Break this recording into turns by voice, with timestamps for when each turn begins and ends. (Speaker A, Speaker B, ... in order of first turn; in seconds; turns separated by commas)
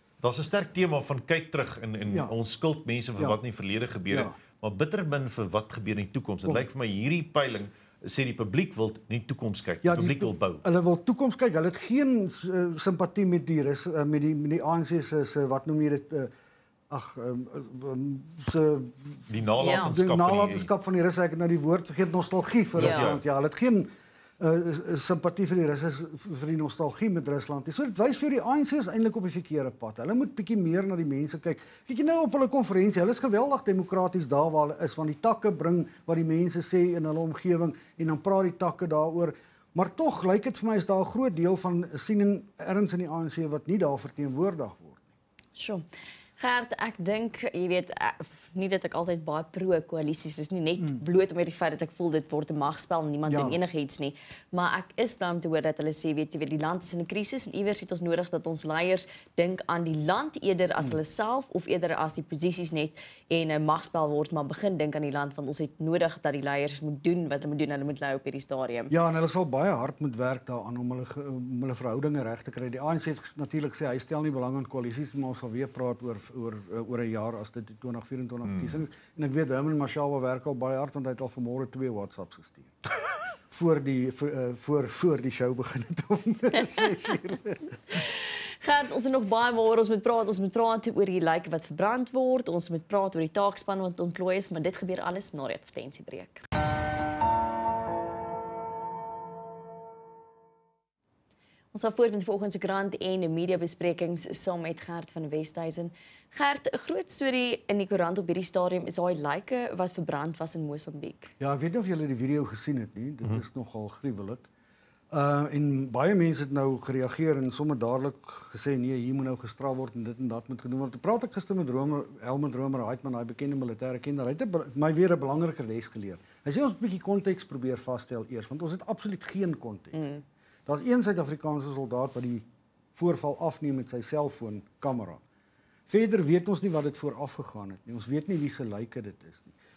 Speaker A: 0.2-10.6, Speaker B: 2.1-2.3, Speaker B: 4.1-4.3, Speaker B: 9.8-16.3, Speaker B: 16.9-23.9, Speaker A: 19.3-20.7, Speaker C: 19.6-19.9, Speaker A: 22.8-23.2, Speaker C: 22.8-23.1, Speaker B: 24.4-45.0, Speaker C: 45.5-45.8, Speaker C: 46.4-68.9, Speaker B: 53.2-53.6, Speaker B: 68.9-82.7, Speaker B: 83.5-87.7, Speaker C: 87.9-96.4, Speaker C: 101.7-111.3, Speaker B: 111.4-114.4, Speaker B: 115.1-130.0, Speaker C: 129.9-130.2, Speaker B: 130.7-135.2, Speaker B: 135.9-139.5